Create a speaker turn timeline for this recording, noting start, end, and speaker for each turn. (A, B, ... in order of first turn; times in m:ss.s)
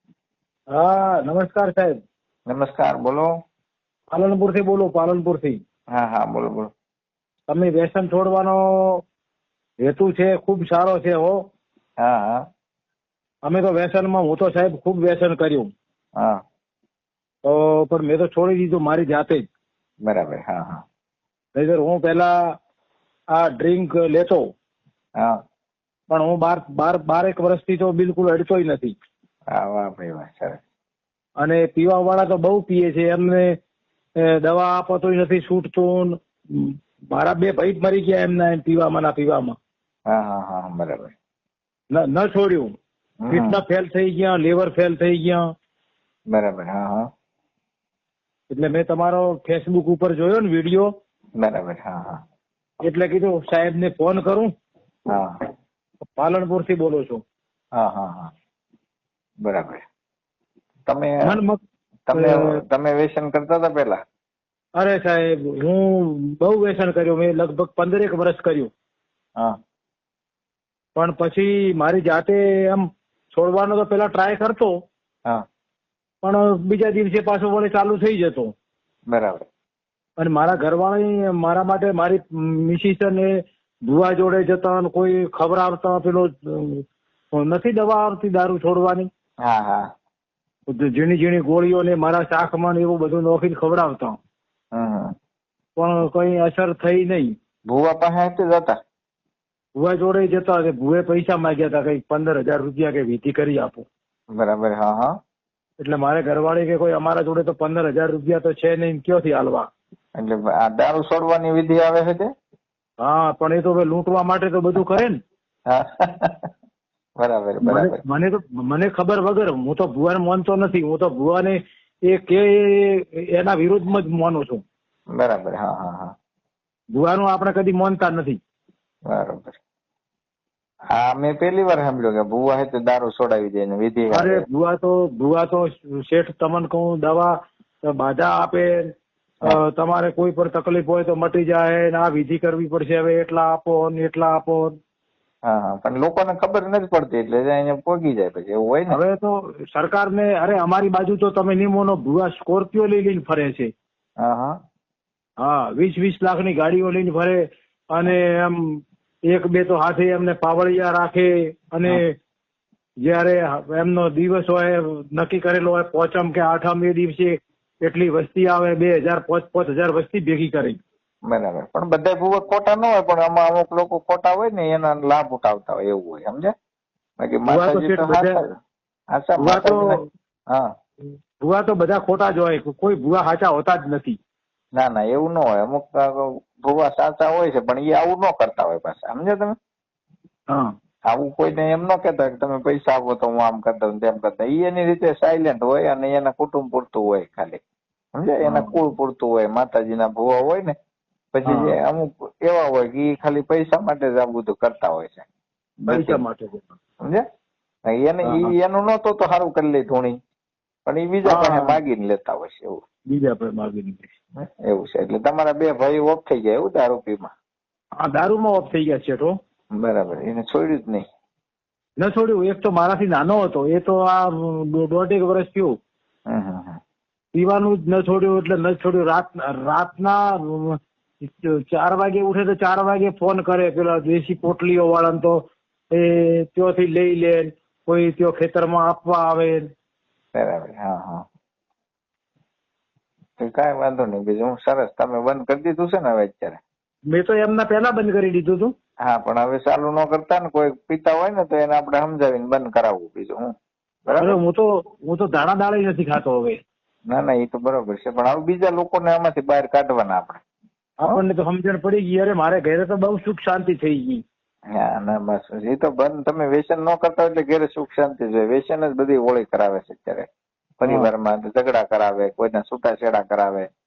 0:00.8-0:02.0 A
0:02.5-0:03.3 B
0:04.1-0:05.6 A
0:05.9-0:06.7 B
0:07.5-0:09.0 A
0:09.8-0:11.4 A
0:12.0-0:12.4 B
0:13.5-0:15.7 A
0:17.5-0:19.5 A
0:20.0-0:20.8 B
0:21.6-0:22.3 A
0:23.3-0:24.4 A
0:26.1-0:29.0 A
0:29.5-0:30.6 B
0:31.4-0:33.5 A
0:34.2-0:39.5 A
0:40.1-0:41.1 B
0:41.9-0:42.7 A
0:43.2-0:43.6 B
0:43.3-0:45.4 A
0:46.3-0:47.1 B
0:48.5-0:50.9 A
0:51.4-0:52.2 B
0:52.8-0:54.5 A
0:55.1-0:55.4 B
0:56.2-0:57.2 A
0:57.8-0:58.3 B
0:59.4-0:59.8 B
1:00.9-1:01.4 B
1:01.2-1:01.6 A
1:02.1-1:04.0 B
1:02.1-1:02.6 A
1:04.8-1:08.7 A
1:11.0-1:14.7 A
1:16.2-1:18.5 A
1:19.1-1:19.5 B
1:20.2-1:23.3 A
1:23.9-1:29.1 A
1:29.4-1:29.9 B
1:30.7-1:34.2 A
1:34.7-1:35.1 B
1:35.8-1:37.3 A
1:37.7-1:38.8 B
1:39.8-1:43.8 A
1:44.4-1:45.1 B
1:45.8-1:49.7 A
1:50.2-1:52.3 B
1:53.0-1:55.2 A
1:55.7-1:56.5 B
1:57.2-1:58.0 B
1:57.6-2:04.6 A
2:05.2-2:06.1 B
2:07.0-2:08.4 A
2:09.1-2:09.6 B
2:11.0-2:14.4 B
2:14.1-2:17.3 A
2:17.9-2:18.8 A
2:19.4-2:24.8 A
2:25.5-2:29.0 B
2:28.9-2:33.7 A
2:34.2-2:34.5 B
2:35.4-2:42.1 A
2:43.0-2:50.8 A
2:51.3-2:56.5 B
2:57.2-2:58.6 B
2:57.5-2:58.4 A
2:59.1-3:00.0 B
2:59.4-3:00.0 A
3:01.4-3:04.2 A
3:04.8-3:09.6 B
3:11.1-3:17.6 B
3:18.2-3:20.7 B
3:18.5-3:18.8 A
3:21.3-3:25.3 B
3:21.5-3:21.8 A
3:25.8-3:26.2 B
3:25.9-3:26.7 A
3:27.9-3:30.2 B
3:28.2-3:28.5 A
3:30.9-3:32.8 B
3:31.3-3:31.8 A
3:33.1-3:34.1 A
3:34.4-3:37.3 B
3:38.0-3:39.3 A
3:39.8-3:41.0 B
3:42.0-3:45.7 A
3:46.3-3:46.8 B
3:47.4-3:55.4 A
3:55.9-3:59.6 A
4:00.4-4:01.2 B
4:03.4-4:06.6 B
4:07.1-4:08.7 A
4:09.0-4:13.5 B
4:14.1-4:14.4 B
4:14.2-4:16.6 A
4:17.1-4:20.4 B
4:21.0-4:24.2 A
4:24.8-4:30.3 B
4:30.8-4:33.7 B
4:30.8-4:31.1 A